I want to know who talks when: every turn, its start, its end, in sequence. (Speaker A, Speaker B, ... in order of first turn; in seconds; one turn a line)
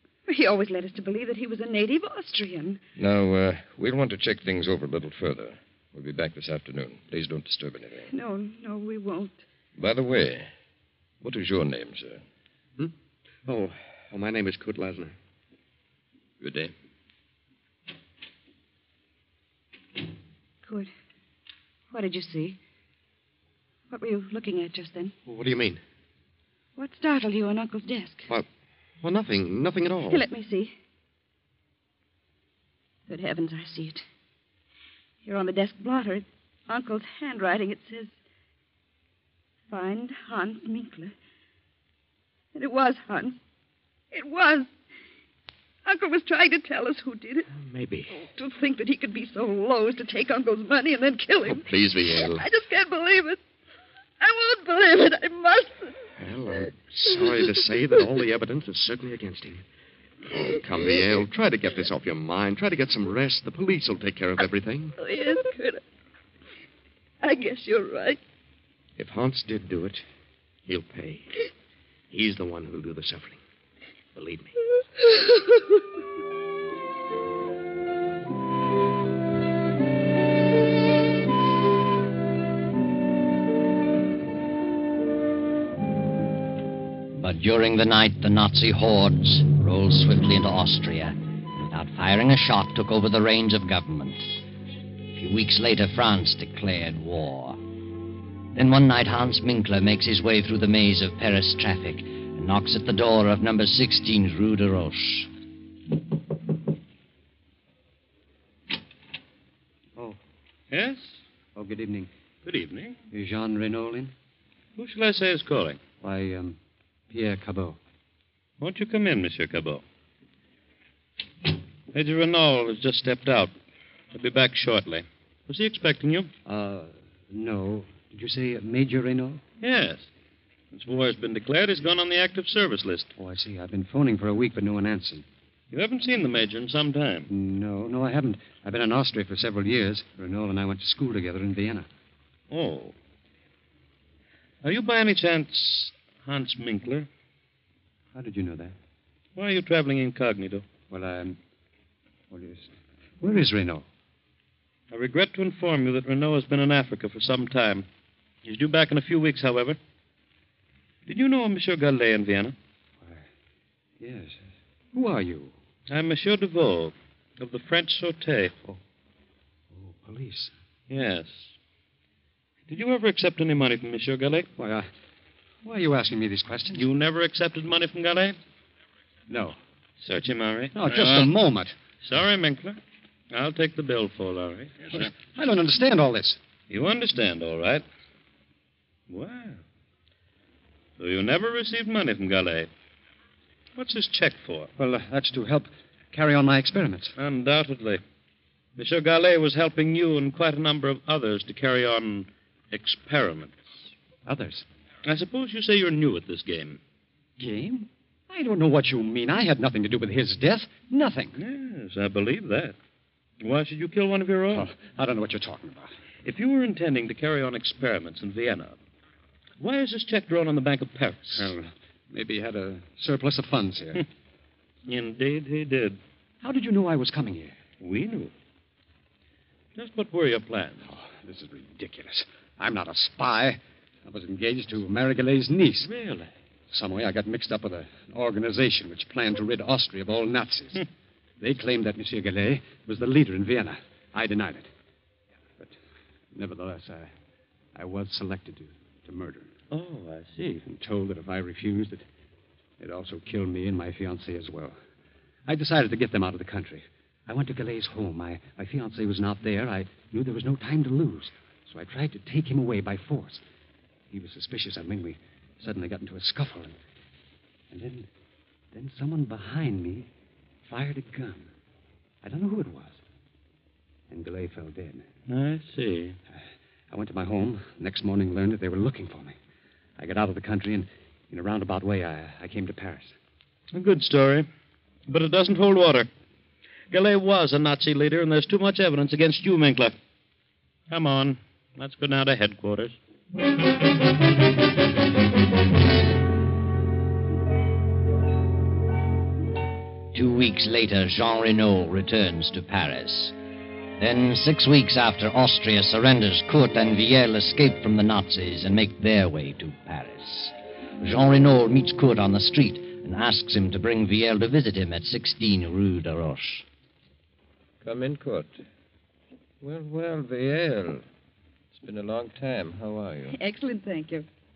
Speaker A: 0.3-2.8
Speaker B: 3.0-8.1
Speaker A: 8.1-9.4
Speaker B: 9.8-10.5
Speaker B: 11.2-12.2
Speaker C: 13.4-15.2
Speaker B: 16.4-16.7
Speaker A: 20.6-20.9
Speaker A: 21.9-22.6
Speaker A: 23.9-25.1
Speaker C: 25.3-25.8
Speaker A: 26.8-28.3
Speaker C: 29.0-30.2
Speaker A: 30.1-30.8
Speaker A: 33.1-34.1
Speaker A: 35.2-38.2
Speaker A: 39.7-41.1
Speaker A: 42.5-43.4
Speaker A: 44.1-44.7
Speaker A: 45.9-47.5
Speaker C: 47.5-48.2
Speaker A: 48.2-51.7
Speaker C: 51.5-52.5
Speaker A: 52.2-53.4
Speaker A: 54.2-56.0
Speaker C: 56.2-59.6
Speaker C: 60.3-65.0
Speaker A: 65.0-65.8
Speaker A: 67.2-68.2
Speaker C: 69.0-70.1
Speaker C: 70.7-71.5
Speaker C: 72.1-73.4
Speaker C: 74.2-74.5
Speaker A: 75.0-75.8
Speaker D: 87.1-94.3
Speaker D: 95.1-97.6
Speaker D: 98.5-105.3
Speaker E: 110.7-111.2
Speaker F: 111.5-112.1
Speaker E: 112.5-113.0
Speaker F: 113.1-114.1
Speaker E: 114.8-115.8
Speaker F: 116.0-116.6
Speaker F: 117.1-117.8
Speaker E: 118.6-119.8
Speaker E: 121.9-123.5
Speaker E: 124.1-126.3
Speaker F: 126.5-129.4
Speaker E: 129.6-130.1
Speaker E: 130.7-133.1
Speaker F: 133.2-135.3
Speaker E: 135.7-137.3
Speaker F: 137.3-141.9
Speaker E: 142.5-142.9
Speaker E: 144.6-147.1
Speaker F: 148.1-148.8
Speaker E: 149.4-150.7
Speaker F: 150.9-151.4
Speaker F: 152.3-153.9
Speaker E: 154.9-157.9
Speaker E: 158.4-159.8
Speaker E: 161.1-162.6
Speaker F: 164.0-164.4
Speaker F: 164.9-165.5
Speaker E: 165.9-168.5
Speaker F: 169.7-170.5
Speaker E: 170.9-171.6
Speaker E: 172.7-174.5
Speaker F: 174.6-174.9
Speaker F: 175.6-176.8
Speaker E: 176.7-178.4
Speaker F: 179.3-179.6
Speaker E: 180.0-181.4
Speaker F: 180.7-181.8
Speaker E: 182.0-182.8
Speaker E: 183.3-185.1
Speaker F: 184.9-186.4
Speaker E: 186.7-187.8
Speaker E: 189.1-189.6
Speaker E: 191.0-192.7
Speaker E: 193.8-194.7
Speaker F: 194.8-197.2
Speaker E: 197.2-198.0
Speaker E: 198.8-203.8
Speaker F: 204.3-204.7
Speaker E: 205.1-206.8
Speaker F: 207.4-211.4
Speaker E: 211.4-212.8
Speaker E: 213.4-214.7
Speaker F: 214.5-215.9
Speaker E: 216.2-218.8
Speaker E: 219.6-221.5
Speaker F: 221.3-224.0
Speaker E: 224.9-226.0
Speaker F: 226.4-227.6
Speaker E: 227.8-228.3
Speaker E: 229.8-230.8
Speaker F: 230.9-235.9
Speaker E: 235.8-236.3
Speaker F: 236.7-240.8
Speaker F: 241.4-244.7
Speaker F: 246.3-247.1
Speaker F: 247.8-249.5
Speaker E: 249.7-250.6
Speaker F: 250.7-252.1
Speaker F: 252.8-254.8
Speaker F: 255.5-263.4
Speaker F: 264.1-266.8
Speaker F: 267.7-268.1
Speaker F: 268.7-270.1
Speaker F: 270.6-271.5
Speaker F: 272.2-273.0
Speaker F: 274.1-275.1
Speaker E: 275.3-276.2
Speaker F: 276.9-279.4
Speaker F: 280.0-283.1
Speaker E: 283.7-284.5
Speaker E: 285.1-286.1
Speaker E: 286.9-290.0
Speaker E: 290.9-293.0
Speaker D: 300.1-303.4
Speaker D: 304.0-316.7
Speaker B: 317.8-318.6
Speaker B: 319.6-321.0
Speaker B: 321.7-323.4
Speaker A: 323.3-324.3